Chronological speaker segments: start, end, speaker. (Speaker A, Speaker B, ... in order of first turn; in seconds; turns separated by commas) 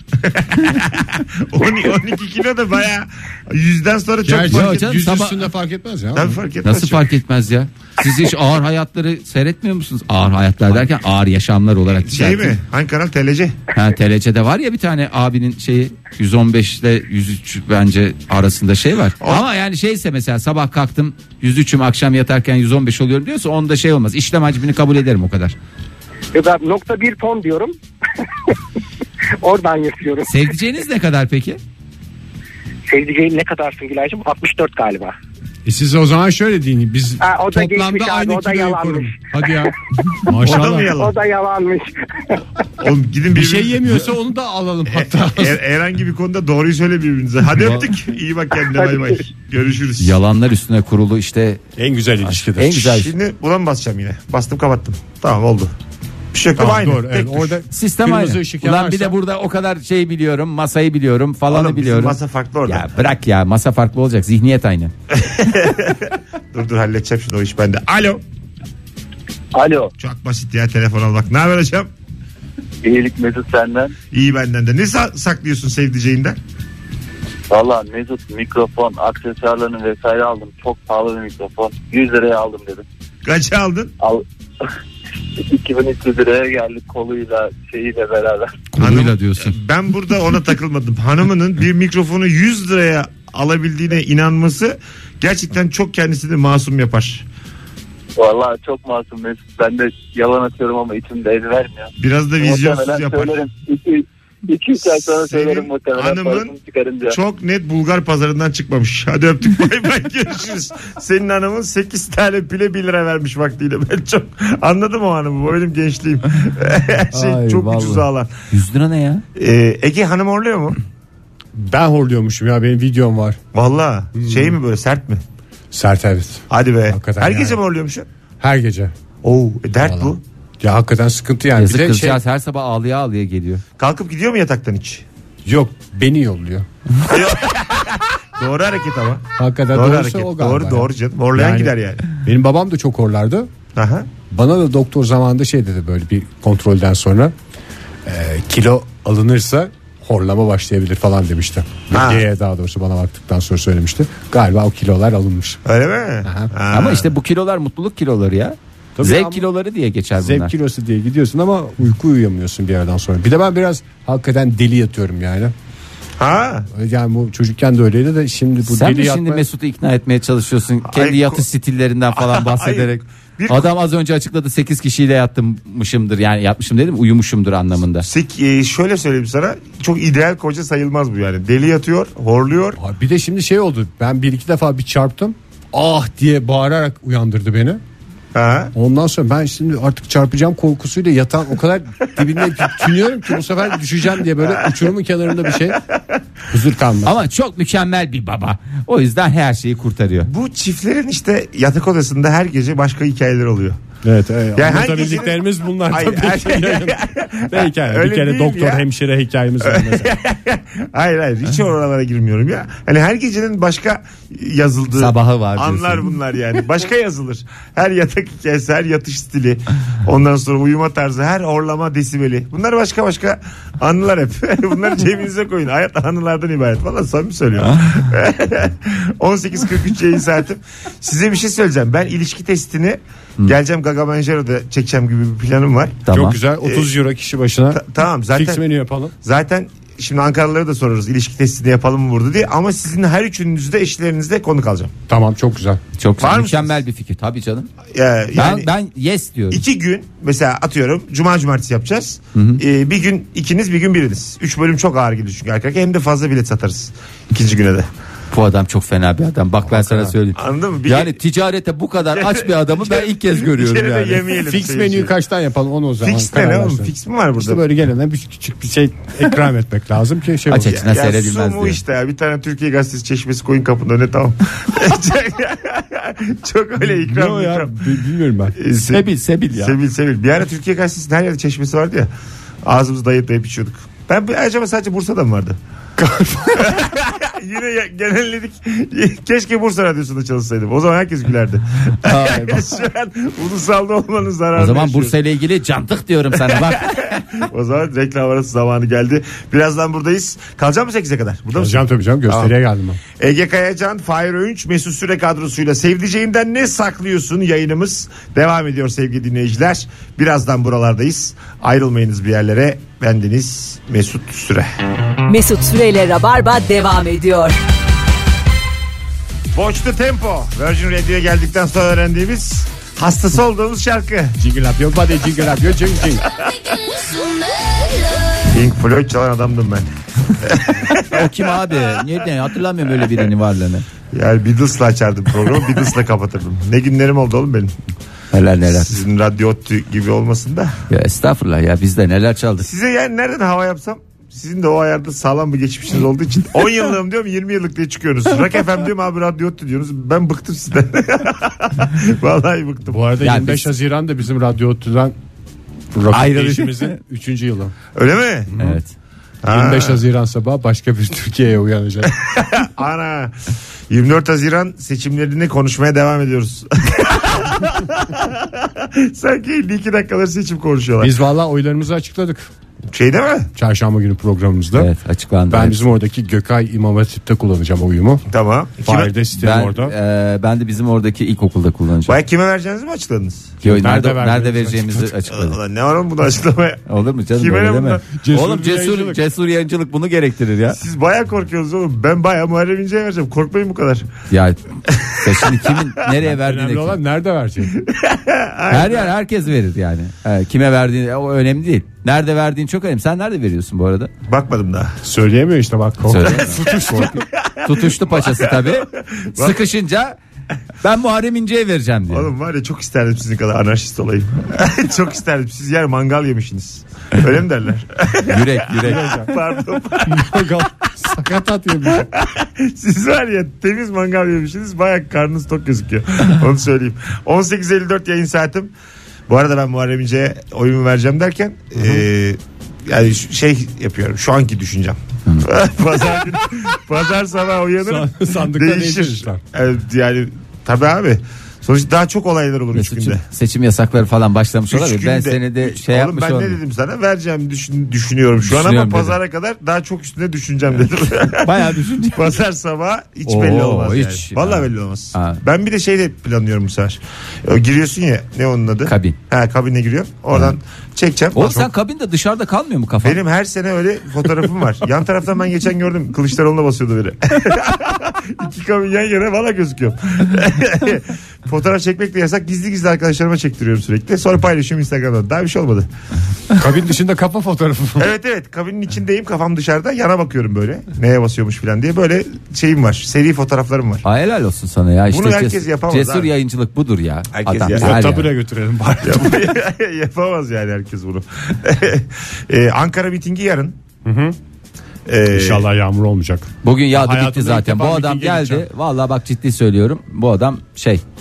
Speaker A: 0.2-5.0, Speaker B: 4.2-6.4, Speaker C: 4.5-5.5, Speaker A: 6.1-7.1, Speaker C: 6.6-12.6, Speaker A: 12.0-13.6, Speaker C: 13.7-25.5, Speaker D: 26.3-27.7, Speaker D: 29.4-30.3, Speaker C: 30.2-31.6, Speaker D: 32.9-35.1, Speaker B: 35.6-40.9, Speaker D: 37.2-39.7, Speaker D: 40.4-42.4, Speaker A: 40.4-41.1, Speaker A: 42.8-44.1, Speaker B: 43.3-45.6, Speaker A: 44.9-50.2, Speaker D: 48.7-49.1, Speaker C: 50.0-51.6, Speaker B: 51.8-52.9, Speaker C: 52.2-53.1, Speaker A: 52.8-55.7, Speaker A: 56.3-57.6, Speaker B: 56.6-59.1, Speaker C: 57.7-64.9, Speaker A: 61.5-62.9, Speaker A: 65.1-68.2, Speaker E: 69.5-69.9, Speaker A: 70.0-71.9, Speaker E: 72.8-73.9, Speaker A: 74.1-76.4, Speaker E: 77.5-82.8, Speaker A: 83.2-83.9, Speaker E: 84.0-84.7, Speaker E: 85.3-88.6, Speaker C: 88.7-89.5, Speaker A: 88.8-97.2, Speaker E: 98.2-107.2, Speaker A: 102.0-103.3, Speaker A: 104.9-106.5, Speaker A: 107.1-118.3, Speaker C: 117.1-119.2, Speaker A: 119.3-120.8, Speaker B: 121.5-123.4, Speaker A: 123.5-125.2, Speaker B: 124.2-124.5, Speaker B: 125.7-127.6, Speaker A: 126.5-128.1, Speaker B: 128.4-128.9, Speaker A: 129.2-130.2, Speaker B: 129.8-132.2, Speaker C: 131.6-133.6, Speaker A: 133.8-135.0, Speaker B: 135.4-136.7, Speaker A: 137.0-142.1, Speaker B: 139.4-143.5, Speaker A: 143.7-144.1, Speaker B: 144.3-147.3, Speaker B: 148.1-155.6, Speaker A: 151.9-152.2, Speaker A: 155.6-157.1, Speaker C: 156.7-160.5, Speaker B: 159.0-159.4, Speaker B: 160.2-165.5, Speaker A: 166.2-166.7, Speaker B: 166.7-169.4, Speaker C: 168.7-178.1, Speaker A: 170.8-171.4, Speaker A: 172.1-173.7, Speaker A: 178.0-182.8, Speaker B: 182.8-187.8, Speaker A: 188.3-188.7, Speaker B: 188.7-195.8, Speaker A: 192.2-193.0, Speaker A: 194.4-194.9, Speaker B: 196.5-197.2, Speaker C: 197.0-200.3, Speaker A: 200.2-203.8, Speaker B: 204.0-210.1, Speaker A: 204.5-208.8, Speaker A: 209.6-236.1, Speaker C: 214.9-216.1, Speaker C: 236.1-236.4, Speaker B: 236.1-237.8, Speaker A: 236.6-236.9, Speaker A: 237.7-238.6, Speaker B: 238.3-239.1, Speaker A: 239.2-244.9, Speaker B: 245.1-245.8, Speaker C: 246.0-247.7, Speaker A: 246.2-246.8, Speaker A: 247.9-248.7, Speaker C: 248.3-249.6, Speaker A: 249.5-257.9, Speaker C: 252.3-252.6, Speaker C: 258.3-264.4, Speaker B: 259.6-260.1, Speaker A: 260.3-261.2, Speaker A: 262.1-265.1, Speaker B: 264.4-270.7, Speaker A: 266.0-267.6, Speaker C: 270.5-271.8, Speaker A: 270.6-278.0, Speaker B: 276.9-278.6, Speaker A: 278.6-282.1, Speaker C: 278.8-279.8, Speaker A: 282.6-285.6, Speaker B: 286.0-286.8, Speaker A: 286.6-295.2, Speaker C: 292.0-292.7, Speaker C: 294.5-297.1, Speaker A: 296.4-302.5, Speaker B: 301.6-303.0, Speaker A: 303.2-314.7, Speaker F: 315.2-317.6, Speaker A: 319.5-324.4, Speaker B: 324.4-326.2, Speaker A: 328.4-331.4, Speaker C: 330.9-333.8, Speaker A: 334.1-337.7, Speaker C: 338.3-339.0, Speaker A: 338.7-340.8, Speaker C: 340.9-342.7, Speaker A: 342.6-353.0, Speaker B: 352.9-355.1, Speaker C: 353.2-353.7, Speaker B: 355.9-357.7, Speaker C: 356.1-357.0, Speaker A: 357.9-358.6, Speaker C: 358.6-358.9, Speaker A: 359.4-360.0, Speaker B: 359.5-362.1, Speaker A: 362.1-371.1, Speaker B: 371.0-372.5, Speaker A: 372.9-373.5, Speaker B: 373.6-374.9, Speaker C: 374.8-375.8, Speaker B: 375.5-378.2, Speaker A: 378.3-379.1, Speaker B: 378.8-379.9, Speaker C: 379.3-382.2, Speaker A: 382.1-383.6, Speaker B: 383.6-385.1, Speaker C: 383.6-385.6, Speaker A: 385.3-388.0, Speaker C: 386.9-390.8, Speaker B: 388.2-389.2, Speaker A: 390.7-394.1, Speaker C: 394.3-397.0, Speaker A: 394.9-395.9, Speaker B: 396.2-397.7, Speaker A: 397.7-399.1, Speaker C: 398.7-404.1, Speaker A: 404.2-404.9, Speaker B: 405.0-407.2, Speaker C: 406.0-410.2, Speaker A: 406.2-409.6, Speaker C: 410.8-412.3, Speaker A: 412.1-420.7, Speaker C: 418.2-419.2, Speaker B: 418.8-419.3, Speaker B: 420.0-422.1, Speaker A: 421.8-428.7, Speaker A: 429.3-443.2, Speaker B: 431.8-432.0, Speaker B: 437.8-439.4, Speaker C: 442.7-446.6, Speaker A: 444.7-461.6, Speaker C: 448.4-449.2, Speaker C: 451.4-452.4, Speaker C: 453.2-455.4, Speaker C: 458.9-459.1, Speaker C: 461.3-463.2, Speaker A: 463.0-475.9, Speaker B: 476.5-478.1, Speaker A: 478.0-484.0, Speaker C: 484.0-488.3, Speaker A: 485.1-486.3, Speaker A: 487.3-488.1, Speaker B: 487.7-489.5, Speaker A: 489.0-493.8, Speaker B: 494.0-494.4, Speaker A: 495.1-495.6, Speaker B: 495.3-498.6, Speaker C: 496.6-501.0